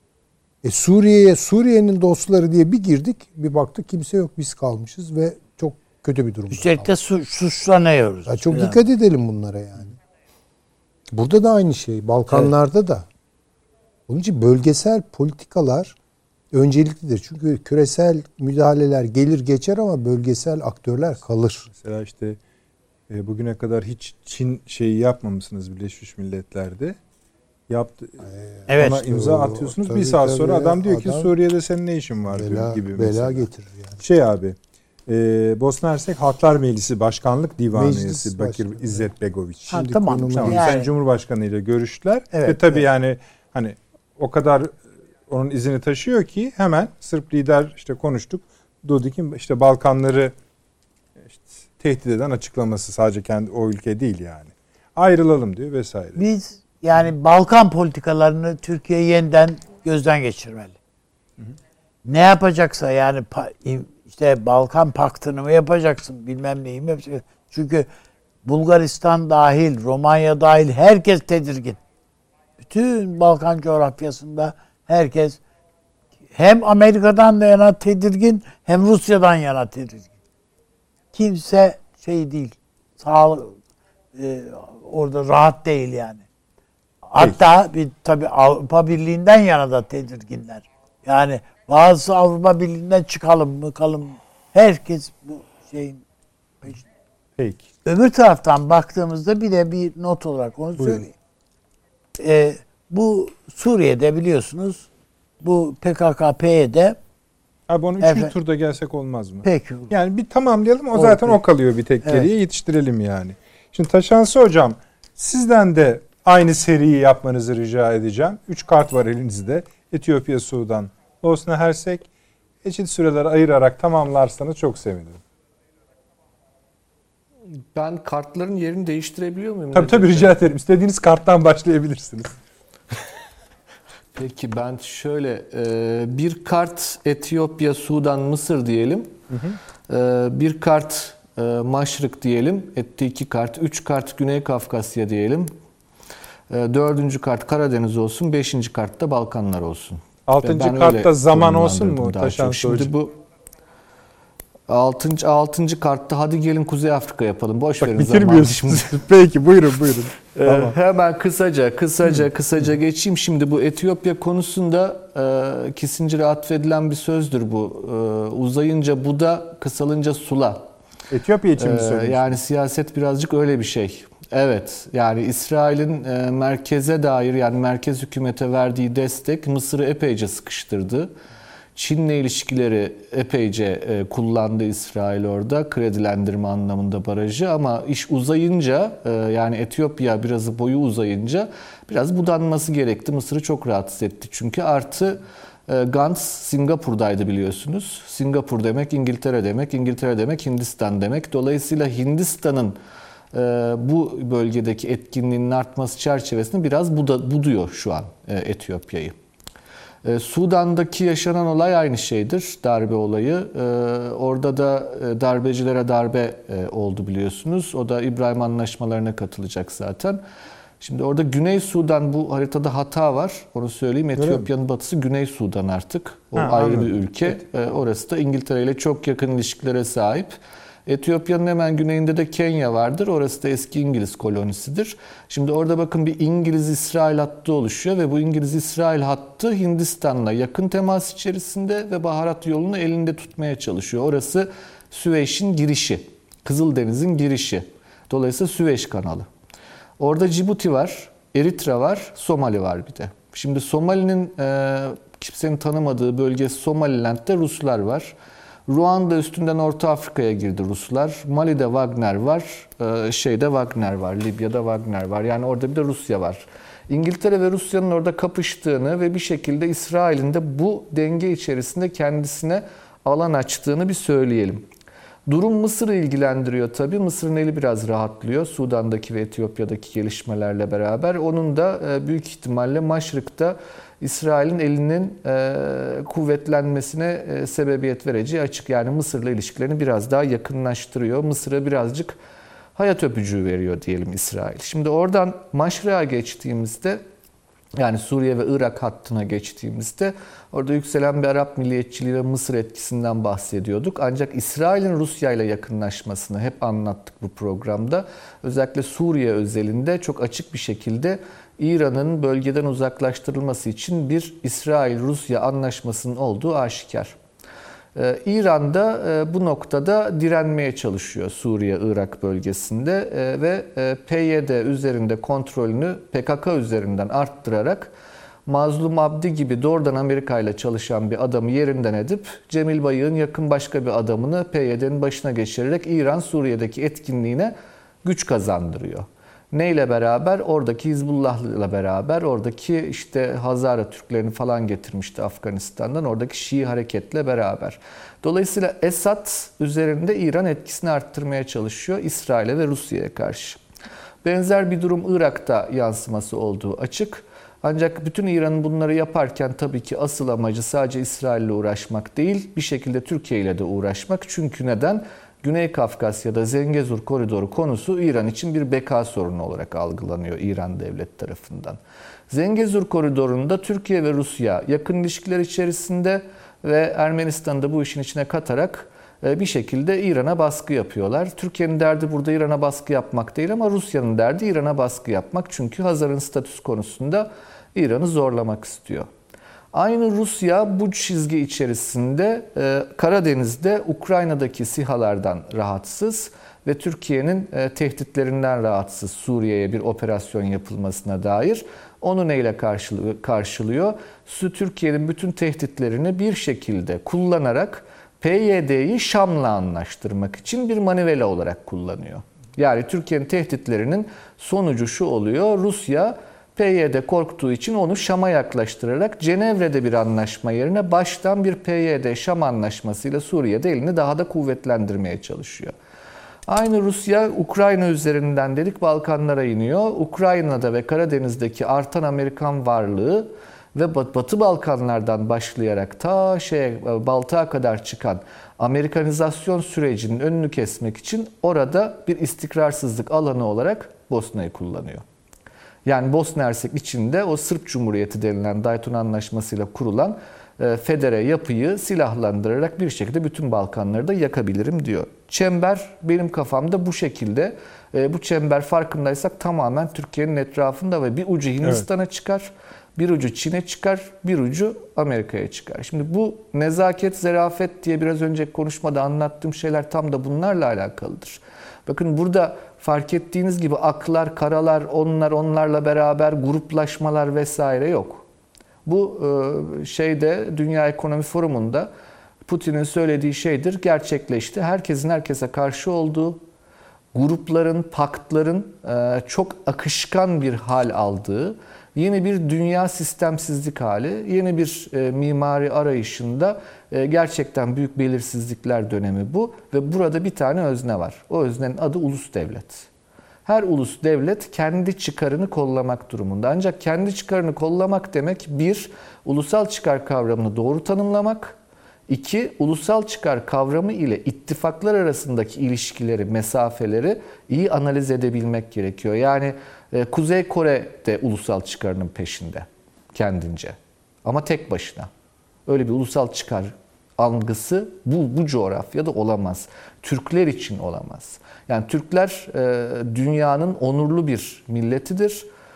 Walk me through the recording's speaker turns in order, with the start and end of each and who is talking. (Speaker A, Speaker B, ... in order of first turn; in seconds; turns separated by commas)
Speaker A: 0.6-6.9, Speaker B: 6.5-8.8, Speaker A: 8.3-10.0, Speaker A: 11.1-13.1, Speaker A: 14.1-16.0, Speaker A: 16.5-21.7, Speaker C: 21.8-22.4, Speaker C: 23.1-27.0, Speaker C: 27.7-33.5, Speaker A: 28.2-31.3, Speaker B: 28.7-29.0, Speaker A: 32.3-34.0, Speaker C: 34.0-34.6, Speaker C: 35.1-44.8, Speaker A: 37.7-39.1, Speaker B: 39.7-40.9, Speaker A: 39.7-40.7, Speaker B: 42.3-42.9, Speaker C: 45.3-50.3, Speaker C: 51.2-56.2, Speaker B: 56.2-60.8, Speaker B: 62.0-67.9, Speaker B: 68.5-71.8, Speaker B: 72.6-75.4, Speaker B: 76.3-80.1, Speaker B: 81.1-83.6, Speaker B: 84.2-86.2, Speaker B: 87.0-96.0, Speaker C: 97.4-97.7, Speaker B: 97.8-101.1, Speaker C: 100.8-101.0, Speaker B: 102.2-104.9, Speaker B: 105.4-107.0, Speaker C: 107.7-122.1, Speaker B: 108.0-108.3, Speaker B: 109.4-109.9, Speaker B: 110.9-111.4, Speaker B: 112.0-112.3, Speaker C: 122.6-125.2, Speaker D: 127.8-130.3, Speaker C: 129.7-132.4, Speaker D: 134.2-139.2, Speaker C: 139.3-139.6, Speaker D: 139.9-145.5, Speaker D: 146.5-153.2, Speaker C: 150.3-152.9, Speaker D: 154.7-159.0, Speaker C: 157.8-160.8, Speaker D: 160.3-170.7, Speaker C: 171.1-172.4, Speaker D: 171.6-181.1, Speaker D: 181.8-202.8, Speaker D: 203.3-209.2, Speaker D: 210.0-220.2, Speaker D: 220.8-230.3, Speaker C: 224.2-224.5, Speaker C: 226.3-227.3, Speaker D: 230.9-249.3, Speaker D: 250.0-258.2, Speaker D: 258.7-274.7, Speaker D: 275.3-292.2, Speaker D: 292.8-297.0, Speaker D: 297.8-317.2, Speaker D: 317.9-327.9, Speaker D: 328.5-353.6, Speaker D: 354.2-371.8, Speaker D: 372.3-389.1, Speaker D: 389.7-425.7, Speaker D: 426.5-445.0, Speaker D: 445.9-478.2, Speaker D: 478.9-481.9, Speaker D: 482.5-486.4, Speaker D: 487.1-502.9, Speaker D: 503.5-511.6, Speaker D: 512.1-525.1, Speaker D: 525.7-535.5